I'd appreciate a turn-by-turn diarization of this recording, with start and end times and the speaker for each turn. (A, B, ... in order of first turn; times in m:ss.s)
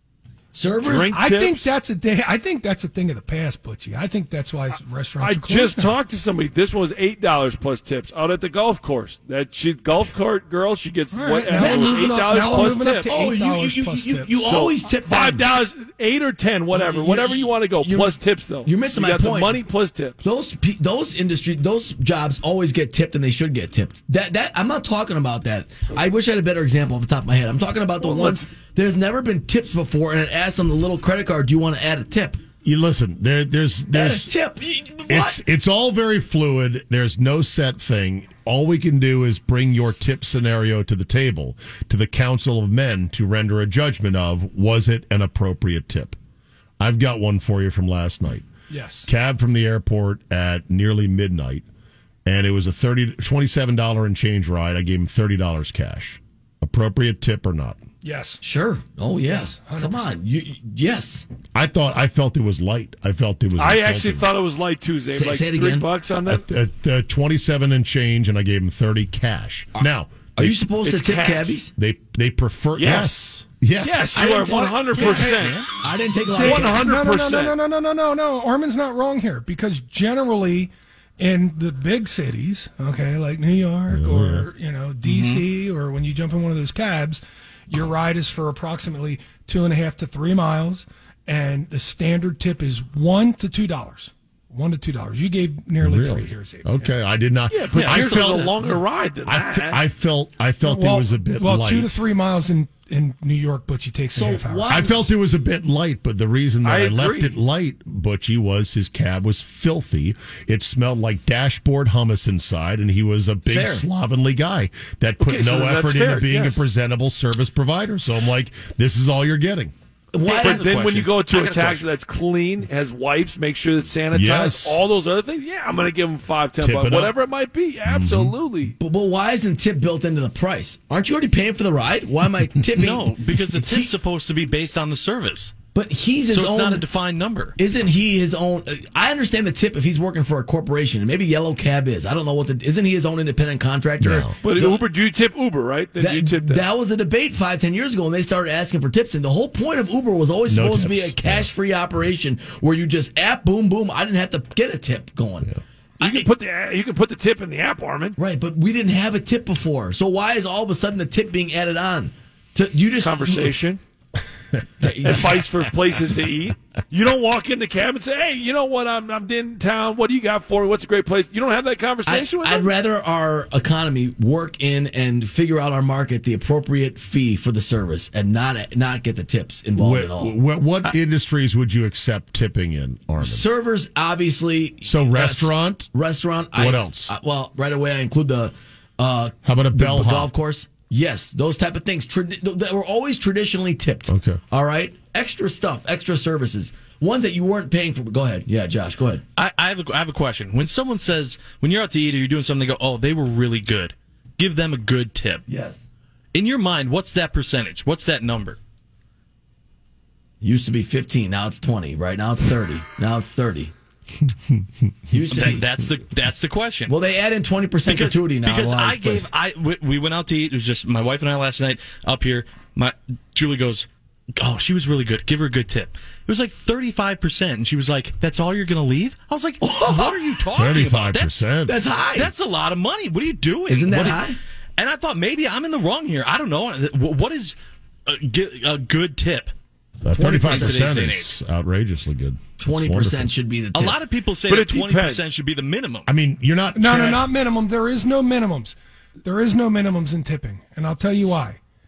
0:00.5-0:01.2 A
0:00.8-0:01.7 B
0:01.1-0:06.0 C
0:05.2-0:13.1 B
0:11.1-0:14.4 C
0:11.6-0:15.6 A
0:14.4-0:20.2 B
0:16.7-0:19.6 A
0:20.2-0:32.4 A
0:28.0-0:28.4 B
0:32.6-0:34.3 D
0:33.9-0:35.4 A
0:35.1-0:46.2 D
0:46.8-0:48.5 D
0:48.7-0:49.1 C
0:49.1-0:51.6 D
0:52.2-0:57.8 D
0:58.0-0:58.4 C
0:58.4-1:01.3 A
0:59.3-1:00.2 C
1:01.6-1:04.3 D
1:03.6-1:06.4 B
1:05.1-1:05.9 A
1:06.2-1:10.6 D
1:09.8-1:11.7 A
1:10.8-1:11.6 B
1:11.8-1:14.4 D
1:12.8-1:13.2 B
1:13.8-1:15.7 B
1:14.2-1:15.2 A
1:14.3-1:15.6 C
1:15.8-1:16.8 A
1:16.2-1:36.9 C
1:16.3-1:17.6 B
1:23.9-1:24.5 D
1:25.0-1:25.4 E
1:35.8-1:38.6 D
1:37.5-1:39.8 B
1:37.7-1:38.5 E
1:39.3-1:42.0 D
1:40.6-1:44.9 C
1:44.1-1:45.1 A
1:44.7-1:59.7 D
1:46.6-1:47.4 B
1:53.5-1:53.8 A
1:55.2-1:56.7 B
2:00.1-2:00.7 A
2:00.2-2:01.8 E
2:00.3-2:08.8 B
2:04.1-2:04.8 D
2:06.6-2:07.2 D
2:07.9-2:08.4 D
2:08.8-2:13.9 A
2:12.7-2:15.6 E
2:15.7-2:16.8 A
2:16.3-2:17.6 E
2:17.6-2:24.8 A
2:24.0-2:24.4 D
2:24.4-2:26.6 B
2:26.0-2:36.3 A
2:30.5-2:31.5 D
2:36.0-2:38.2 B
2:38.2-2:43.5 A
2:43.0-2:43.8 B
2:44.8-2:45.4 A
2:45.0-2:52.7 B
2:52.1-3:00.3 A
2:59.8-3:03.5 D
3:03.2-3:19.2 A
3:04.8-3:05.9 D
3:06.5-3:07.1 D
3:09.4-3:10.3 D
3:14.1-3:14.4 D
3:19.4-3:25.4 E
3:25.5-3:25.8 A
3:26.3-3:28.6 E
3:30.4-3:33.7 A
3:35.1-3:35.6 A
3:35.3-3:36.9 E
3:36.9-3:39.3 A
3:37.9-3:51.5 E
3:49.6-3:50.2 A
3:50.5-3:51.8 D
3:51.6-3:52.3 A
3:52.2-3:54.2 E
3:53.7-3:54.4 A
3:54.8-3:59.5 E
4:00.0-4:03.3 D
4:00.2-4:01.2 A
4:00.3-4:01.3 E
4:02.6-4:04.0 A
4:03.7-4:06.1 E
4:04.5-4:05.3 B
4:06.1-4:07.2 D
4:06.8-4:11.6 C